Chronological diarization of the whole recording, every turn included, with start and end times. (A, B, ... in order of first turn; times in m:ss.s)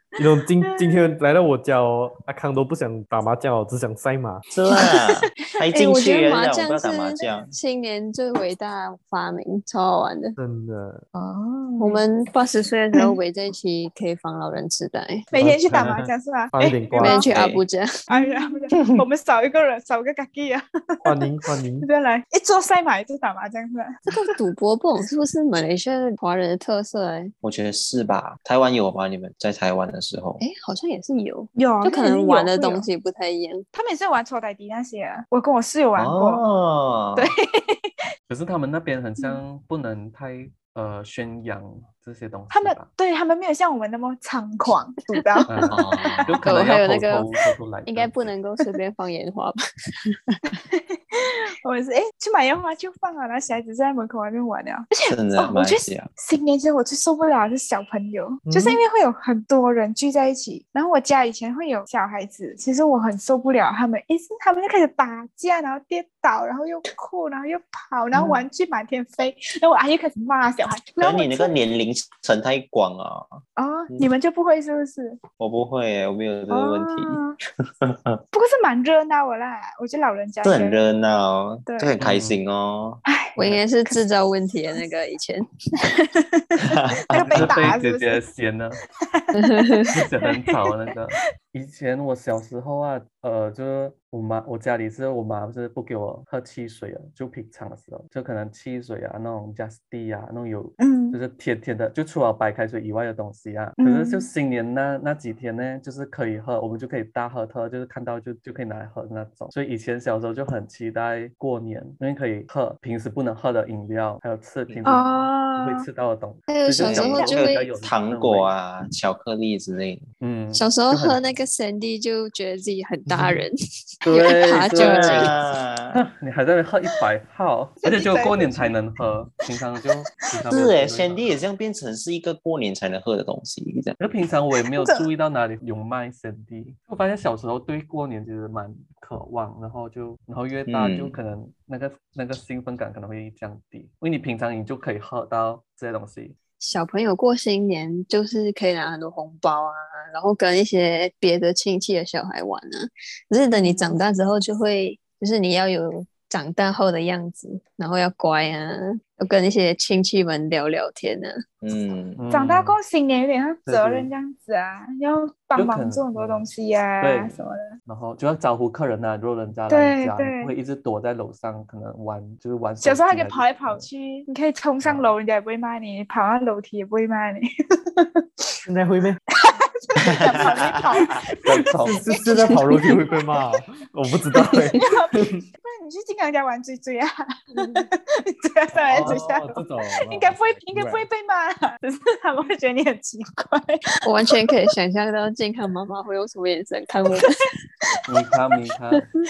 0:00.2-0:01.0 A
0:00.2-0:04.4 B
0:04.5-0:07.5 C
0:04.7-0:05.5 A
0:05.7-0:10.4 D
0:10.4-0:11.0 B
0:11.1-0:12.0 A
0:11.8-0:15.3 D
0:15.3-0:17.3 A
0:15.3-0:17.2 B
0:17.0-0:18.5 D
0:17.3-0:17.6 C
0:18.1-0:21.3 A
0:18.8-0:19.0 C
0:21.0-0:21.9 B
0:21.8-0:24.3 A
0:24.1-0:27.3 D
0:27.4-0:30.4 C
0:30.4-0:33.6 D
0:31.6-0:32.8 A
0:33.7-0:36.4 A
0:36.0-0:37.3 C
0:37.2-0:37.9 A
0:38.3-0:42.9 E
0:42.5-0:45.8 A
0:45.5-0:48.2 E
0:45.7-0:46.4 C
0:46.4-0:47.2 D
0:47.8-0:49.6 D
0:50.5-1:11.5 A
0:55.1-0:56.1 C
0:58.5-0:58.8 B
1:11.0-1:14.1 C
1:13.6-1:15.2 A
1:15.4-1:17.2 C
1:16.5-1:17.4 A
1:17.8-1:18.2 C
1:18.3-1:20.8 A
1:20.4-1:23.0 C
1:22.0-1:22.4 E
1:23.0-1:23.3 A
1:23.4-1:25.4 D
1:25.8-1:28.2 A
1:26.6-1:27.6 C
1:27.2-1:28.8 E
1:29.1-1:30.9 A
1:29.3-1:29.9 D
1:29.9-1:58.5 E
1:40.8-1:41.2 A
1:43.8-1:44.3 A
1:54.8-1:55.8 A
1:56.5-1:57.7 D
1:56.8-2:00.0 C
2:00.2-2:01.2 E
2:00.5-2:03.5 D
2:04.0-2:05.3 E
2:04.1-2:05.3 D
2:04.7-2:06.0 C
2:05.9-2:11.3 E
2:07.8-2:08.8 A
2:10.5-2:14.0 C
2:14.0-2:26.4 E
2:14.6-2:15.1 A
2:20.7-2:21.2 C
2:26.6-2:41.4 D
2:33.5-2:33.9 A
2:41.6-2:42.2 C
2:42.2-2:42.8 E
2:42.3-2:47.7 A
2:43.7-2:44.1 E
2:45.6-2:46.5 E
2:47.0-2:53.9 E
2:49.7-2:50.5 A
2:52.8-2:58.6 A
2:54.8-2:55.1 E
2:58.6-2:59.2 B
2:59.3-3:03.2 A
3:00.0-3:01.1 C
3:01.4-3:02.0 E
3:01.8-3:05.4 B
3:04.4-3:14.5 A
3:08.9-3:11.0 B
3:08.9-3:09.2 E
3:14.0-3:17.3 D
3:18.1-3:19.1 E